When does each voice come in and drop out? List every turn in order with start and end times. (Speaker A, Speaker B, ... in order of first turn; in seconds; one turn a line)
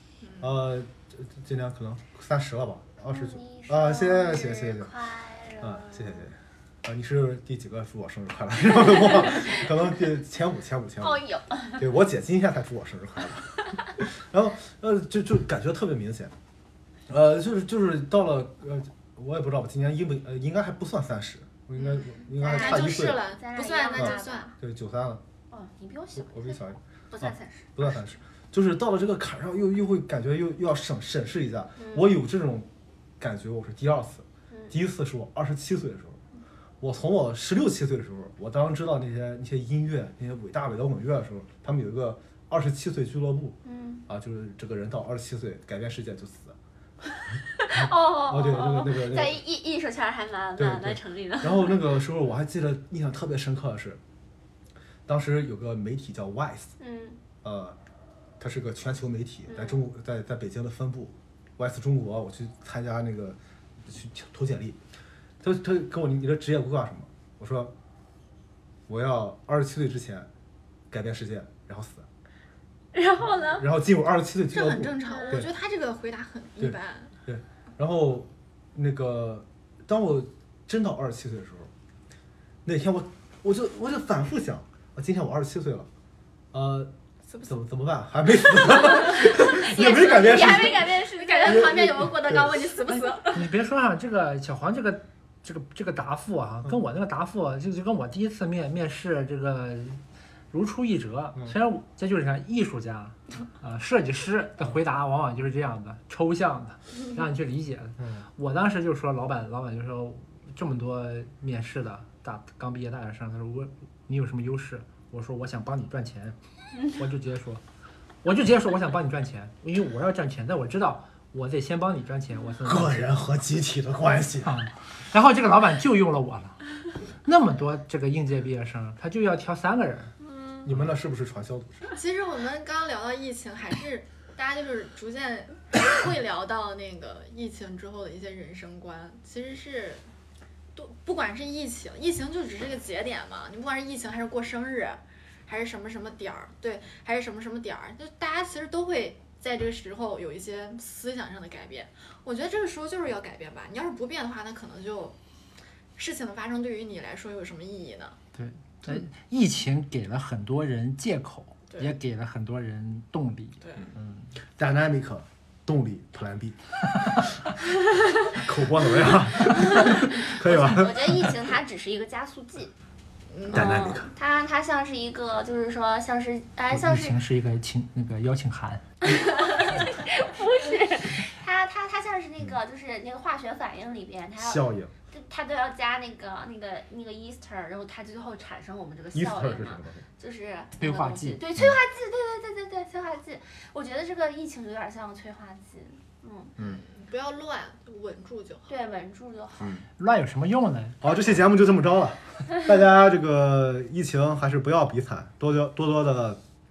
Speaker A: 0.2-0.5
Speaker B: 0.4-4.9
Speaker C: 3.1-6.3
Speaker B: 5.6-11.2
Speaker C: 11.0-11.8
Speaker B: 11.8-16.3
Speaker B: 17.1-23.2
Speaker C: 22.4-24.6
Speaker A: 22.4-24.5
Speaker B: 23.9-25.2
Speaker C: 25.5-26.6
Speaker B: 26.2-32.7
Speaker C: 27.1-28.0
Speaker C: 31.8-32.1
Speaker B: 33.2-36.2
Speaker C: 34.5-34.8
Speaker B: 36.8-43.6
Speaker C: 43.6-44.0
Speaker B: 44.1-46.6
Speaker C: 47.6-51.8
Speaker B: 47.8-49.4
Speaker B: 50.6-54.0
Speaker B: 55.1-56.7
Speaker C: 56.8-57.2
Speaker B: 57.4-57.8
Speaker B: 58.4-64.8
Speaker C: 59.5-59.8
Speaker B: 65.4-67.8
Speaker B: 68.9-70.3
Speaker B: 70.9-72.1
Speaker C: 72.9-73.7
Speaker B: 73.4-75.5
Speaker A: 74.5-77.1
Speaker B: 76.6-81.7
Speaker B: 82.7-85.9
Speaker B: 86.5-86.9
Speaker A: 87.3-87.5
Speaker B: 87.5-92.6
Speaker A: 88.7-93.5
Speaker C: 88.8-93.4
Speaker D: 93.3-100.0
Speaker D: 100.5-117.6
Speaker B: 108.0-108.3
Speaker D: 118.2-123.2
Speaker B: 122.6-124.6
Speaker D: 124.4-126.7
Speaker D: 127.2-130.1
Speaker B: 130.6-131.9
Speaker D: 130.7-131.0
Speaker A: 131.9-140.1
Speaker A: 140.8-155.2
Speaker A: 156.0-158.2
Speaker D: 158.3-164.3
Speaker A: 163.6-163.9
Speaker B: 164.6-167.3
Speaker B: 168.2-171.3
Speaker C: 169.8-172.7
Speaker A: 173.3-173.6
Speaker B: 173.5-174.1
Speaker C: 173.5-177.2
Speaker D: 176.7-178.9
Speaker C: 179.0-196.6
Speaker B: 184.4-184.9
Speaker B: 189.1-190.0
Speaker D: 190.8-191.4
Speaker B: 196.6-196.8
Speaker A: 196.6-198.7
Speaker C: 198.7-199.8
Speaker D: 200.0-201.0
Speaker B: 201.0-206.4